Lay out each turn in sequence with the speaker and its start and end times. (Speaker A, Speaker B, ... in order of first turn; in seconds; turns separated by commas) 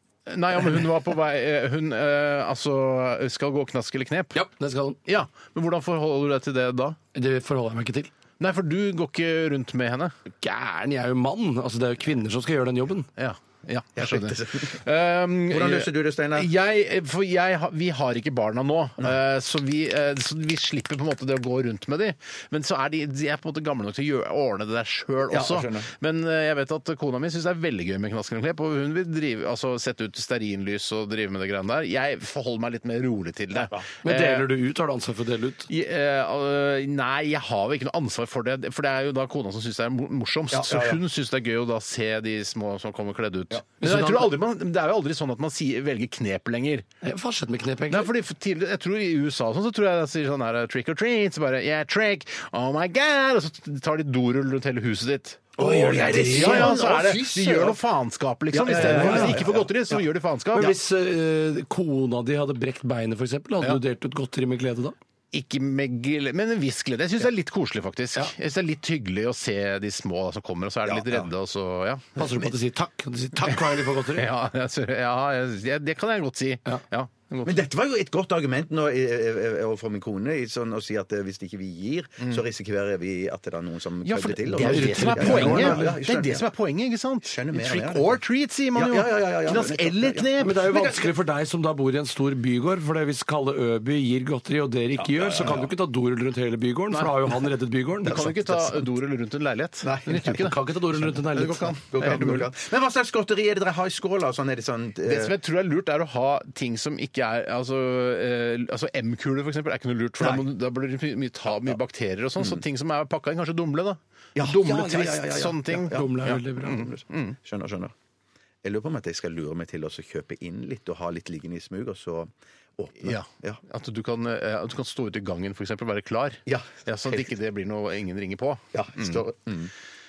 Speaker A: 0.3-4.4, Speaker B: 4.3-5.0, Speaker A: 5.0-7.0, Speaker B: 7.1-8.1, Speaker A: 8.4-10.1, Speaker B: 10.4-13.1, Speaker A: 13.2-34.5, Speaker C: 13.9-14.8, Speaker C: 15.5-16.5, Speaker C: 25.3-25.9, Speaker B: 34.0-35.7, Speaker A: 35.7-46.9, Speaker C: 40.5-41.0, Speaker B: 43.8-44.3, Speaker B: 47.0-48.1, Speaker A: 47.9-60.8, Speaker B: 55.6-57.5, Speaker C: 55.6-57.7, Speaker C: 58.5-60.0, Speaker B: 58.6-59.5, Speaker B: 60.5-65.0, Speaker A: 65.3-72.2, Speaker C: 70.8-71.3, Speaker B: 72.2-74.3, Speaker A: 74.1-77.6, Speaker C: 77.4-86.5, Speaker A: 84.0-91.1, Speaker B: 84.5-86.0, Speaker C: 87.2-88.2, Speaker C: 88.7-90.3, Speaker B: 90.4-98.2, Speaker C: 95.0-95.6, Speaker A: 98.0-100.6, Speaker C: 98.0-98.9, Speaker C: 99.8-100.5, Speaker B: 100.3-101.8, Speaker A: 101.2-102.5, Speaker C: 101.4-105.3, Speaker A: 105.0-117.3, Speaker C: 114.3-117.9, Speaker B: 115.9-116.9, Speaker C: 118.6-123.6, Speaker A: 123.0-129.2, Speaker C: 126.5-127.3, Speaker C: 128.7-129.7